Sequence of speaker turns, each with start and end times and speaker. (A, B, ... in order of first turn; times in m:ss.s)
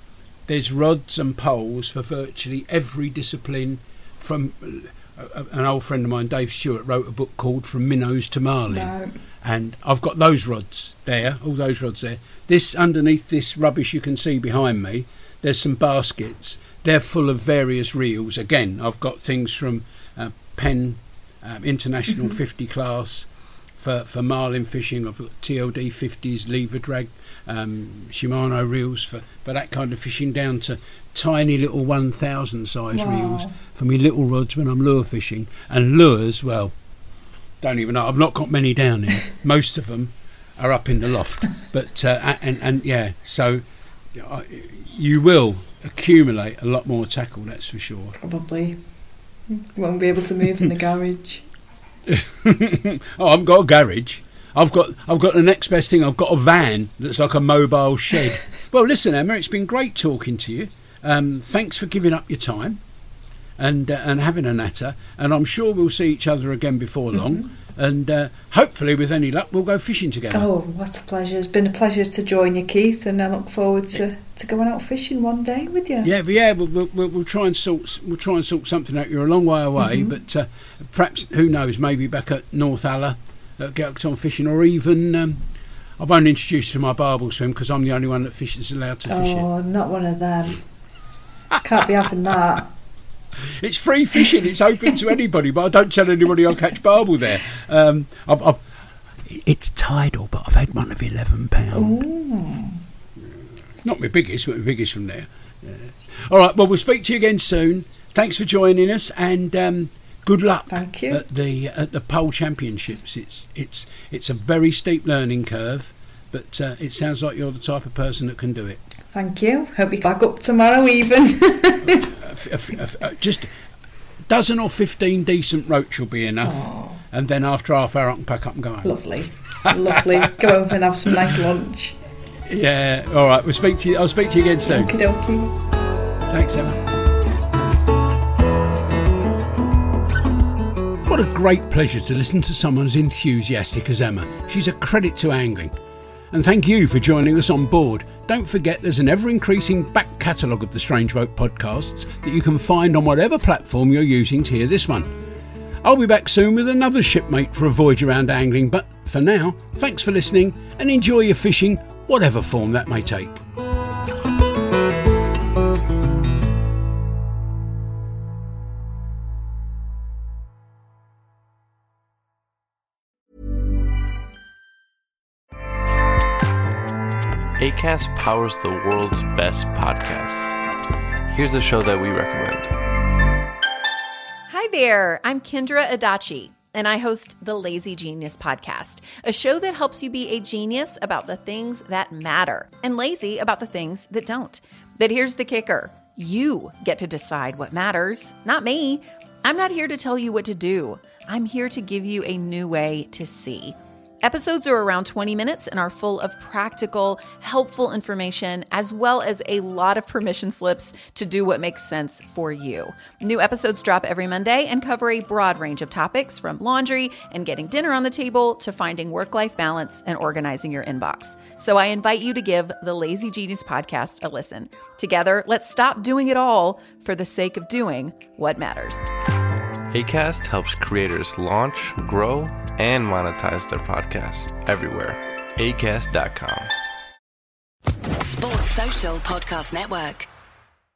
0:00.5-0:23.3 A
0:08.7-0:09.1 B
0:23.8-0:36.7 A
0:32.9-0:33.6 B
0:37.6-0:43.6 A
0:44.1-0:48.2 A
0:48.2-0:48.8 B
0:49.5-0:51.4 B
0:52.1-1:02.8 A
1:03.6-1:10.5 A
1:10.3-1:16.1 B
1:16.0-1:25.4 A
1:19.8-1:20.1 B
1:26.0-1:29.5 A
1:29.1-1:30.6 B
1:31.6-1:32.7 B
1:33.5-1:38.6 A
1:39.2-1:42.0 A
1:41.7-1:42.8 B
1:43.8-1:58.8 A
1:50.7-1:51.2 B
1:59.1-2:02.1 B
2:02.0-2:03.5 A
2:04.3-2:09.0 A
2:06.4-2:07.0 B
2:08.8-2:12.0 B
2:09.6-2:10.5 A
2:12.5-2:14.9 A
2:14.6-2:15.5 B
2:16.3-2:16.9 A
2:21.0-2:25.7 A
2:26.3-2:35.1 A
2:35.8-2:43.4 A
2:57.6-3:00.6 C
3:01.3-3:02.7 C
3:04.5-3:49.1 D
3:49.9-3:56.7 C
3:58.2-4:00.3 E